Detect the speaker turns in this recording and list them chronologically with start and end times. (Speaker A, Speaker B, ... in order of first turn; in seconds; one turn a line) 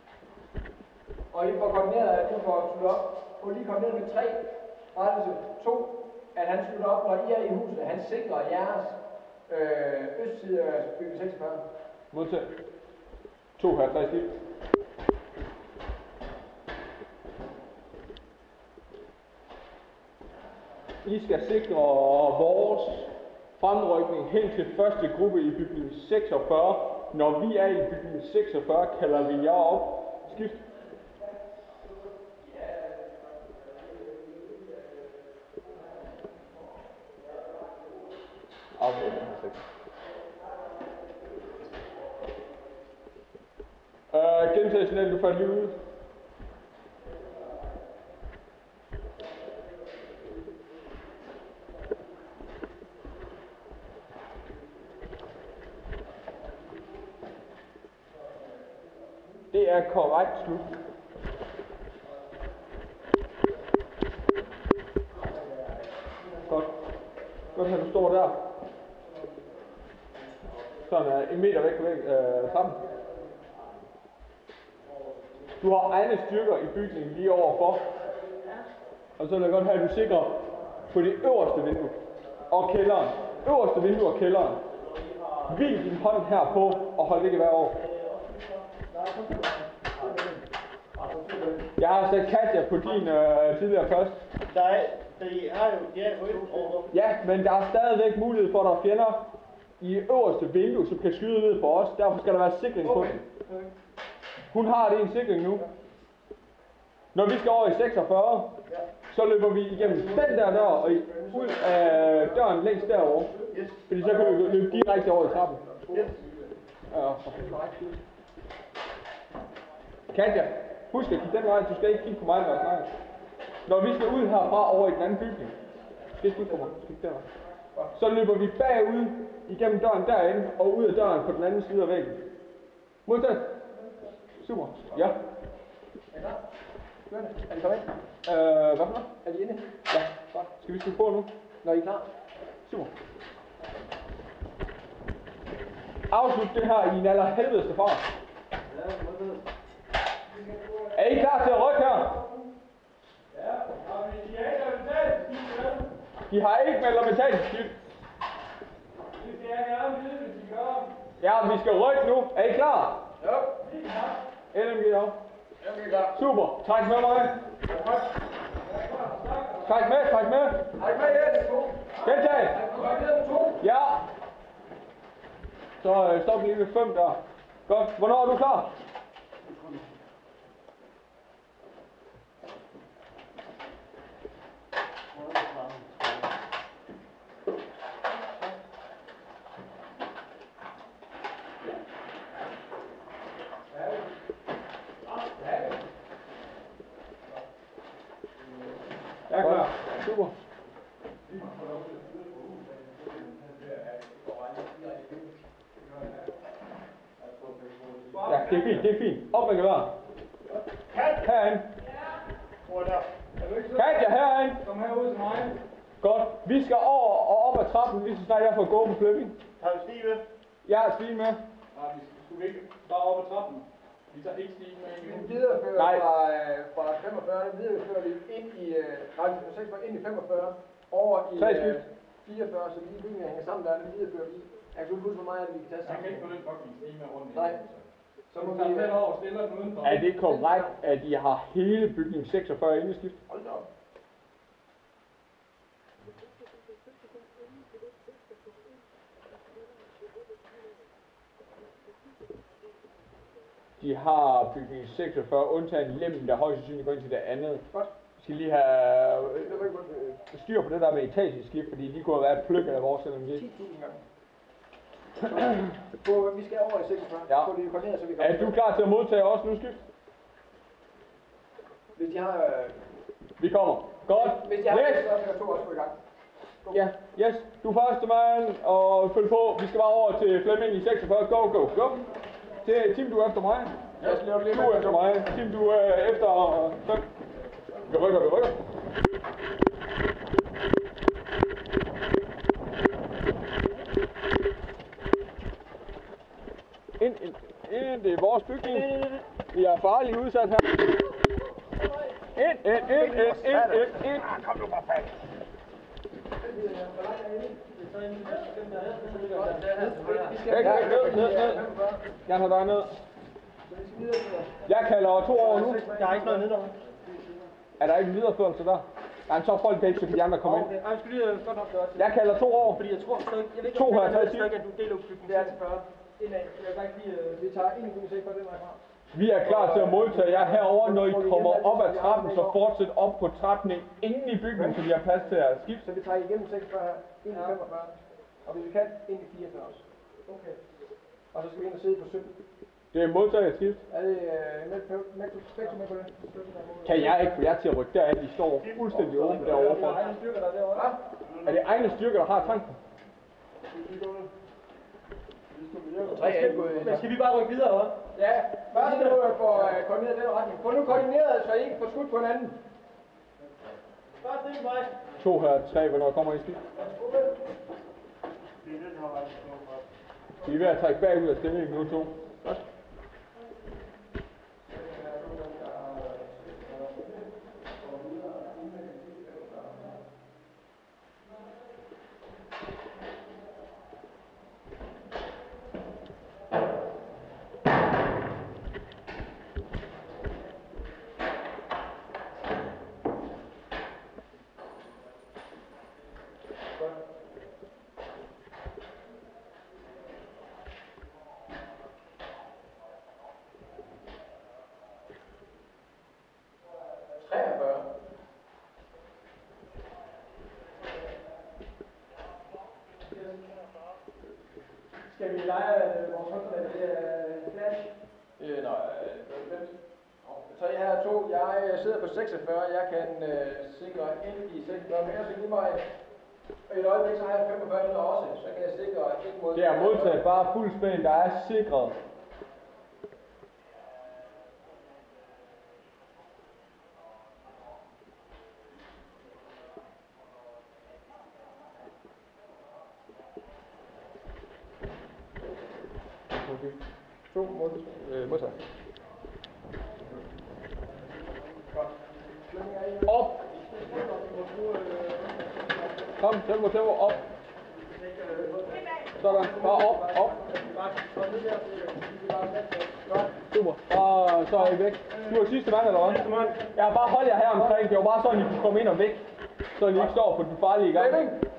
Speaker A: 1.3-9.0
Speaker A: 9.5-11.6
Speaker B: 12.1-12.6
Speaker B: 13.6-14.3
Speaker B: 21.0-30.6
Speaker B: 38.8-39.6
Speaker B: 44.1-45.8
Speaker B: 59.5-60.8
Speaker B: 66.5-66.8
Speaker B: 67.5-68.4
Speaker B: 70.9-72.8
Speaker B: 75.6-77.9
Speaker B: 79.2-84.6
Speaker B: 85.5-87.8
Speaker A: 89.0-89.5
Speaker C: 91.0-91.6
Speaker B: 91.8-94.2
Speaker D: 94.5-96.9
Speaker B: 96.9-103.2
Speaker A: 102.8-103.7
Speaker B: 104.5-105.7
Speaker B: 107.1-108.5
Speaker B: 109.1-113.3
Speaker A: 109.8-116.5
Speaker D: 113.5-113.8
Speaker B: 113.9-115.6
Speaker B: 116.9-117.5
Speaker A: 117.3-118.0
Speaker B: 120.1-122.9
Speaker B: 123.7-125.5
Speaker B: 126.2-127.3
Speaker B: 127.9-132.2
Speaker B: 133.1-133.5
Speaker B: 134.4-135.2
Speaker A: 136.1-136.4
Speaker A: 137.1-137.9
Speaker B: 138.2-139.1
Speaker A: 139.2-139.7
Speaker B: 139.9-141.3
Speaker A: 141.6-142.1
Speaker B: 142.7-142.9
Speaker B: 146.1-148.0
Speaker C: 148.7-149.4
Speaker A: 150.4-150.9
Speaker B: 150.9-152.2
Speaker C: 153.3-155.9
Speaker B: 156.3-157.7
Speaker C: 159.1-160.9
Speaker B: 161.2-163.0
Speaker A: 163.2-163.6
Speaker C: 163.6-164.2
Speaker B: 164.5-165.2
Speaker A: 165.6-166.2
Speaker B: 166.1-167.4
Speaker A: 167.7-168.0
Speaker C: 168.7-169.7
Speaker B: 169.6-170.7
Speaker A: 170.8-173.6
Speaker B: 172.0-172.6
Speaker B: 173.6-174.1
Speaker B: 175.8-178.7
Speaker A: 195.3-195.7
Speaker B: 199.3-200.3
Speaker A: 199.4-199.7
Speaker C: 201.3-204.3
Speaker A: 204.6-205.3
Speaker C: 207.2-208.9
Speaker B: 208.2-209.9
Speaker D: 210.9-211.2
Speaker B: 211.2-211.7
Speaker D: 212.6-213.1
Speaker C: 213.4-214.1
Speaker B: 213.7-214.6
Speaker C: 214.6-215.6
Speaker B: 216.0-219.3
Speaker D: 219.6-220.2
Speaker B: 220.6-221.4
Speaker C: 221.7-225.6
Speaker A: 225.0-236.3
Speaker B: 225.8-226.0
Speaker B: 231.3-231.8
Speaker C: 235.8-240.0
Speaker A: 238.3-239.0
Speaker B: 239.8-243.2
Speaker A: 240.1-240.7
Speaker A: 243.3-243.7
Speaker B: 253.8-257.6
Speaker B: 258.2-259.6
Speaker A: 259.4-260.2
Speaker B: 260.2-263.4
Speaker A: 263.3-264.0
Speaker A: 265.2-268.6
Speaker B: 268.2-269.8
Speaker A: 271.9-272.8
Speaker B: 273.4-275.1
Speaker A: 274.1-275.9
Speaker B: 276.7-282.1
Speaker B: 282.6-287.0
Speaker A: 284.0-285.1
Speaker B: 287.9-288.6
Speaker B: 297.0-300.9
Speaker E: 298.8-299.1
Speaker B: 302.3-304.4
Speaker D: 304.4-304.8
Speaker A: 306.4-307.6
Speaker E: 307.7-310.6
Speaker C: 308.2-309.6
Speaker A: 309.2-312.0
Speaker B: 310.5-311.6
Speaker B: 312.2-312.9
Speaker A: 313.6-314.5
Speaker B: 314.6-315.8
Speaker A: 315.4-316.4
Speaker E: 315.6-316.7
Speaker D: 316.0-316.5
Speaker B: 317.8-320.8
Speaker E: 320.4-322.1
Speaker B: 321.9-322.8
Speaker E: 322.8-327.4
Speaker B: 323.7-324.5
Speaker A: 325.2-325.6
Speaker A: 327.4-328.8
Speaker B: 329.1-335.8
Speaker A: 329.4-332.6
Speaker A: 334.5-334.8
Speaker A: 335.8-339.8
Speaker E: 337.3-337.6
Speaker E: 340.2-340.6
Speaker A: 341.3-342.3
Speaker B: 342.9-343.8
Speaker A: 343.9-346.2
Speaker E: 346.2-347.2
Speaker B: 346.8-350.0
Speaker D: 348.6-349.8
Speaker E: 349.3-350.9
Speaker C: 349.4-350.6
Speaker A: 350.7-351.0
Speaker D: 351.2-351.6
Speaker B: 351.4-352.8
Speaker D: 353.7-354.3
Speaker D: 355.5-356.2
Speaker A: 356.0-357.1
Speaker E: 356.0-358.0
Speaker A: 358.1-362.6
Speaker E: 358.7-359.6
Speaker E: 364.2-364.9
Speaker B: 365.2-366.6
Speaker A: 366.8-367.3
Speaker D: 368.6-369.9
Speaker B: 370.4-372.6
Speaker A: 374.7-376.3
Speaker A: 378.0-379.8
Speaker A: 407.2-407.9
Speaker E: 415.1-417.8
Speaker A: 415.1-416.6
Speaker A: 417.5-417.8
Speaker A: 418.4-425.8
Speaker A: 426.7-430.2
Speaker B: 429.5-432.0
Speaker B: 446.3-446.7
Speaker A: 447.3-448.6
Speaker A: 452.5-453.3
Speaker B: 453.0-453.4
Speaker E: 453.7-455.7
Speaker B: 456.2-457.2
Speaker E: 458.0-462.6
Speaker B: 459.1-460.4
Speaker A: 461.6-463.3
Speaker B: 463.5-471.2
Speaker A: 467.5-467.8
Speaker A: 470.9-471.4